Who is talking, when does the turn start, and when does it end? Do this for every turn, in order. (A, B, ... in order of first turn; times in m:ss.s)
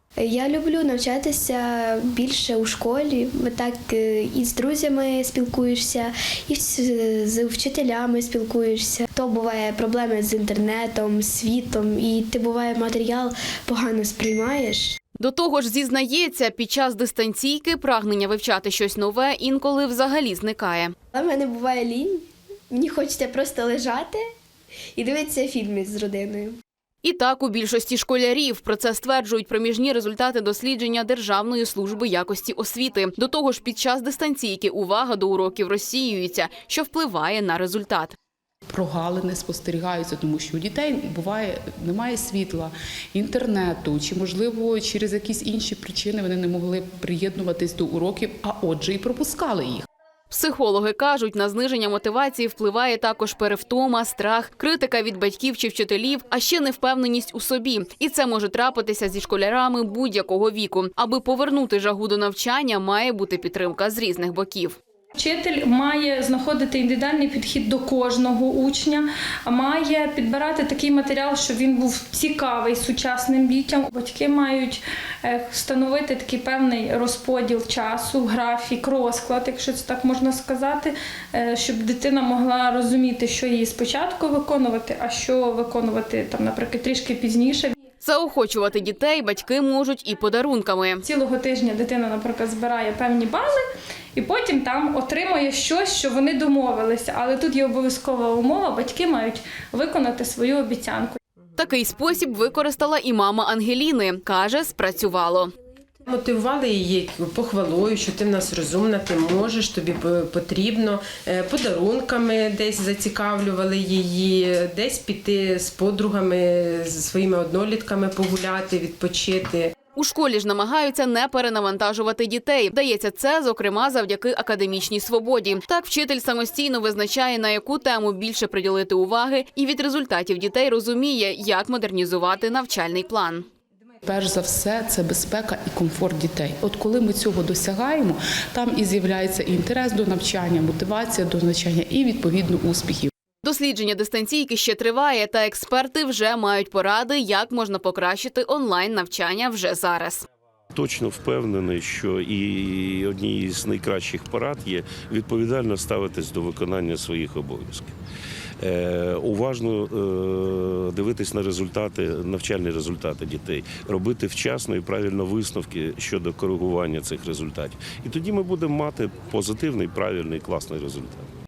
0:00.2-0:15.0 A
0:15.2-0:20.9 B
0:21.1-0:24.2 A
0:25.0-0:26.6 A
0:27.0-0:38.1 B
0:38.7-0:49.9 C
0:50.3-1:04.8 B
1:05.2-1:27.7 D
1:28.0-1:31.0 B
1:31.0-1:41.2 D
1:41.6-1:45.5 B
1:46.1-1:59.7 E
2:00.0-2:13.4 B
2:14.0-2:23.1 C
2:23.4-2:30.2 B
2:30.7-2:37.9 F
2:38.6-2:51.3 F